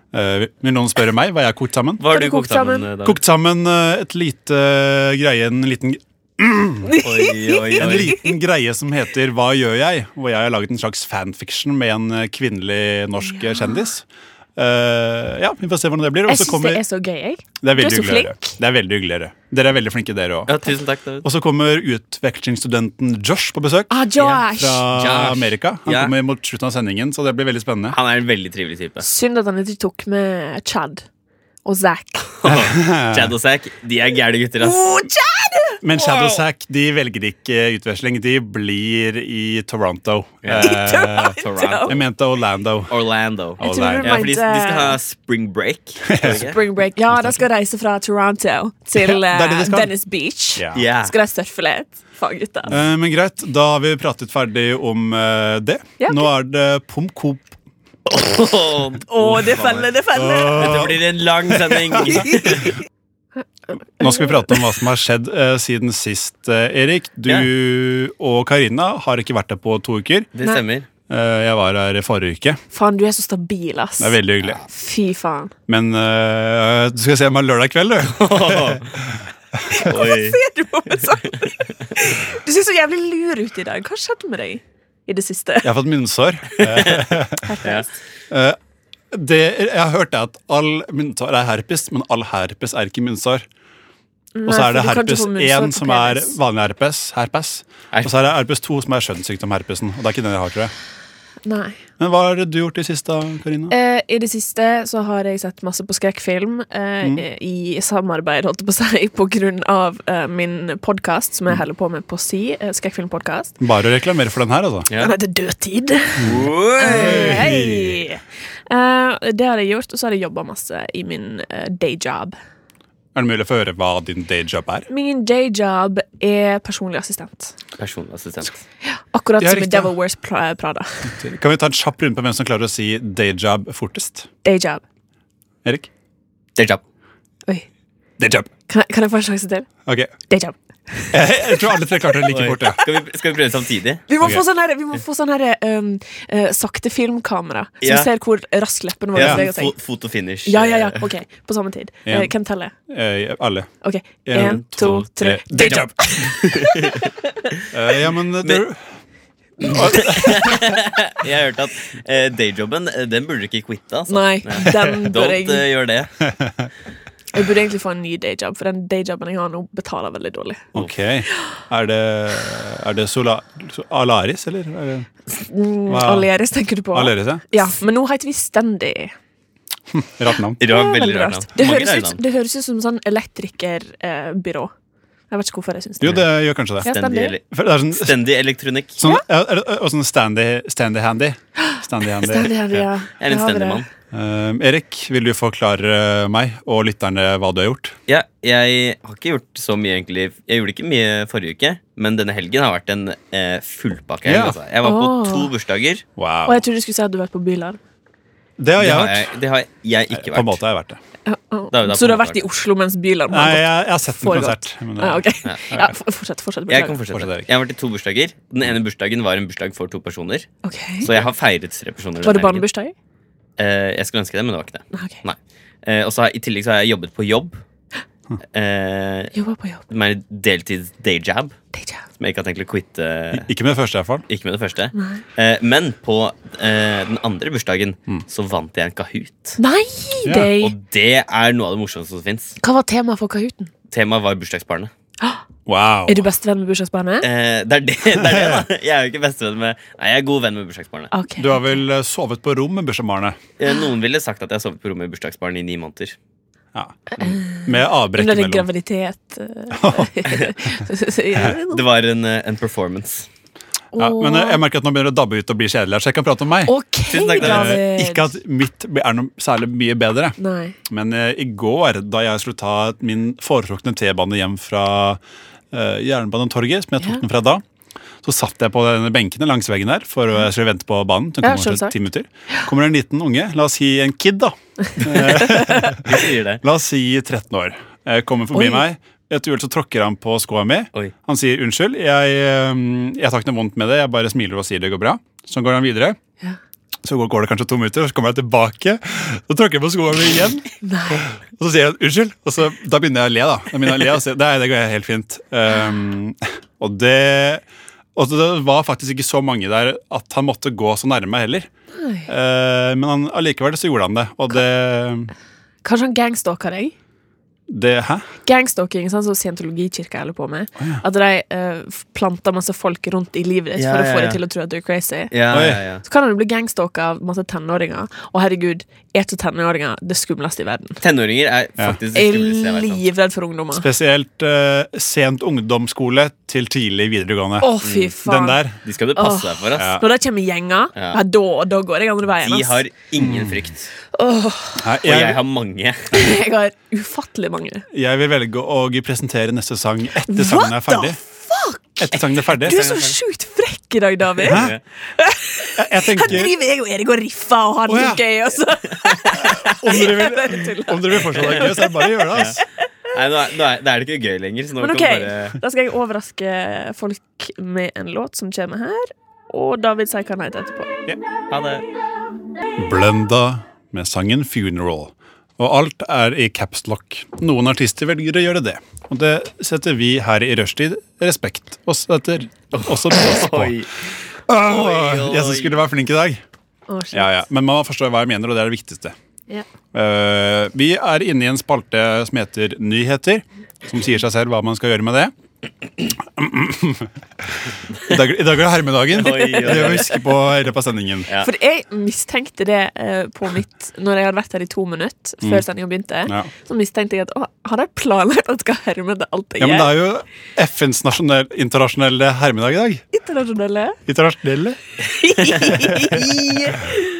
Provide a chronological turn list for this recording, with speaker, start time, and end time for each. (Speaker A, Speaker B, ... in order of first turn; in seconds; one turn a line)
Speaker A: 0.1-2.0
Speaker B: 2.0-3.2
Speaker C: 2.1-2.9
Speaker A: 3.0-7.0
Speaker C: 6.8-8.3
Speaker B: 7.0-8.2
Speaker A: 7.8-16.8
Speaker C: 13.3-13.9
Speaker C: 16.3-18.6
Speaker A: 17.6-20.6
Speaker B: 20.5-21.3
Speaker A: 21.2-24.0
Speaker C: 23.9-24.9
Speaker B: 24.2-26.1
Speaker A: 24.6-28.0
Speaker B: 27.9-29.1
Speaker C: 29.0-31.1
Speaker C: 31.6-32.3
Speaker B: 32.4-34.9
Speaker A: 32.5-33.3
Speaker C: 34.6-35.8
Speaker A: 35.8-42.9
Speaker B: 35.9-36.4
Speaker B: 40.4-40.7
Speaker C: 40.6-42.0
Speaker B: 41.4-42.0
Speaker B: 42.9-46.6
Speaker A: 43.6-44.2
Speaker C: 43.6-45.0
Speaker A: 46.1-46.5
Speaker C: 46.3-52.7
Speaker A: 47.1-47.4
Speaker A: 49.0-49.9
Speaker A: 50.6-50.9
Speaker B: 50.7-51.1
Speaker A: 52.7-57.5
Speaker C: 56.0-56.3
Speaker B: 58.1-59.9
Speaker C: 59.1-60.8
Speaker A: 60.1-62.3
Speaker B: 60.5-62.8
Speaker A: 64.0-70.3
Speaker C: 64.0-64.6
Speaker B: 70.3-70.9
Speaker A: 71.1-72.6
Speaker C: 72.7-75.5
Speaker A: 74.0-74.6
Speaker A: 75.7-79.8
Speaker B: 78.1-79.0
Speaker C: 79.7-85.7
Speaker B: 79.8-80.4
Speaker B: 81.1-81.5
Speaker A: 85.6-87.5
Speaker B: 86.6-87.1
Speaker C: 87.4-87.9
Speaker A: 88.3-88.6
Speaker A: 89.1-93.5
Speaker C: 94.3-96.4
Speaker A: 94.5-100.7
Speaker C: 101.5-101.8
Speaker A: 102.0-103.7
Speaker C: 103.7-113.5
Speaker A: 113.6-114.9
Speaker C: 115.0-122.3
Speaker B: 116.2-117.4
Speaker A: 116.2-118.0
Speaker A: 123.2-124.9
Speaker C: 124.9-127.5
Speaker B: 127.8-128.6
Speaker C: 128.9-131.2
Speaker A: 129.4-129.9
Speaker A: 131.1-134.3
Speaker C: 134.4-134.8
Speaker A: 135.6-135.9
Speaker B: 136.6-136.8
Speaker A: 138.2-138.5
Speaker C: 138.7-139.7
Speaker A: 139.9-140.1
Speaker C: 140.3-141.4
Speaker A: 141.1-142.8
Speaker B: 142.2-144.1
Speaker C: 144.1-149.8
Speaker B: 147.8-148.1
Speaker B: 149.2-151.1
Speaker A: 149.2-149.4
Speaker C: 150.5-152.7
Speaker A: 152.1-152.3
Speaker A: 152.9-153.7
Speaker C: 153.8-157.0
Speaker A: 154.2-156.5
Speaker B: 154.4-157.7
Speaker A: 157.7-158.9
Speaker A: 159.6-160.8
Speaker B: 159.6-166.1
Speaker C: 164.1-165.7
Speaker A: 166.3-166.7
Speaker C: 167.3-170.7
Speaker A: 170.7-175.1
Speaker C: 175.3-179.1
Speaker A: 175.9-176.3
Speaker A: 176.9-177.4
Speaker A: 179.9-180.6
Speaker B: 180.6-182.2
Speaker C: 180.6-184.7
Speaker C: 185.3-186.2
Speaker A: 186.0-186.9
Speaker C: 186.8-187.3
Speaker B: 186.8-189.0
Speaker A: 187.5-188.2
Speaker A: 189.0-192.5
Speaker C: 191.6-193.8
Speaker B: 193.2-193.9
Speaker A: 194.1-198.0
Speaker B: 198.1-206.1
Speaker A: 204.2-204.6
Speaker C: 204.8-205.5
Speaker A: 206.2-206.6
Speaker C: 206.5-207.8
Speaker A: 208.6-209.3
Speaker B: 208.8-210.6
Speaker A: 210.1-211.0
Speaker C: 211.3-217.0
Speaker B: 211.7-212.4
Speaker A: 213.3-215.9
Speaker B: 216.7-220.5
Speaker A: 217.1-217.5
Speaker C: 220.6-221.1
Speaker B: 221.0-222.7
Speaker C: 222.2-222.9
Speaker B: 223.6-227.6
Speaker C: 224.9-225.2
Speaker B: 228.5-229.3
Speaker C: 229.3-229.8
Speaker B: 229.9-231.6
Speaker C: 231.7-232.0
Speaker B: 232.2-233.5
Speaker A: 233.3-234.2
Speaker B: 234.3-239.6
Speaker C: 235.0-235.2
Speaker C: 239.6-240.8
Speaker A: 240.2-240.5
Speaker B: 240.6-242.6
Speaker C: 242.6-243.7
Speaker B: 243.9-244.9
Speaker A: 245.7-246.2
Speaker C: 246.1-247.3
Speaker B: 247.2-251.1
Speaker A: 248.2-248.7
Speaker C: 251.1-251.8
Speaker A: 251.4-253.4
Speaker B: 253.6-256.2
Speaker A: 256.7-258.7
Speaker C: 257.1-261.8
Speaker A: 259.7-260.2
Speaker B: 261.5-263.3
Speaker C: 263.9-264.6
Speaker A: 264.0-266.7
Speaker C: 266.7-268.3
Speaker B: 267.1-267.8
Speaker A: 267.4-270.4
Speaker C: 270.4-270.8
Speaker A: 270.9-275.2
Speaker A: 275.7-277.6
Speaker A: 278.2-296.2
Speaker C: 281.4-282.0
Speaker C: 285.2-285.9
Speaker B: 286.0-286.6
Speaker C: 288.5-288.8
Speaker A: 297.0-307.6
Speaker C: 300.8-301.3
Speaker A: 308.2-311.7
Speaker C: 311.9-312.3
Speaker A: 312.3-315.3
Speaker C: 315.8-316.9
Speaker A: 317.7-318.3
Speaker C: 318.4-325.3
Speaker B: 323.8-324.4
Speaker B: 325.3-326.0
Speaker A: 325.5-325.8
Speaker C: 326.0-331.0
Speaker B: 331.0-333.0
Speaker C: 332.1-333.9
Speaker A: 333.7-338.8
Speaker C: 337.6-338.6
Speaker B: 337.8-338.2
Speaker B: 338.8-339.9
Speaker C: 339.2-342.8
Speaker A: 339.8-340.1
Speaker B: 340.9-341.2
Speaker B: 342.4-343.9
Speaker A: 343.2-343.7
Speaker C: 344.1-344.9
Speaker A: 344.8-345.4
Speaker B: 345.1-346.1
Speaker C: 346.1-347.9
Speaker A: 347.9-351.2
Speaker C: 350.3-362.6
Speaker A: 352.0-352.9
Speaker B: 352.6-353.1
Speaker A: 354.5-354.8
Speaker B: 354.5-354.8
Speaker A: 355.8-356.5
Speaker A: 357.9-358.2
Speaker B: 359.3-359.7
Speaker A: 359.4-362.6
Speaker B: 362.3-362.6
Speaker B: 363.1-365.6
Speaker C: 364.8-370.9
Speaker B: 371.5-371.9
Speaker A: 372.8-383.8
Speaker B: 382.7-385.8
Speaker A: 384.5-386.4
Speaker C: 386.9-387.4
Speaker A: 387.1-389.1
Speaker A: 389.9-395.3
Speaker A: 396.1-401.3
Speaker B: 399.1-400.2
Speaker C: 401.4-409.9
Speaker A: 409.6-413.0
Speaker C: 413.1-414.0
Speaker A: 414.1-414.8
Speaker C: 415.0-417.0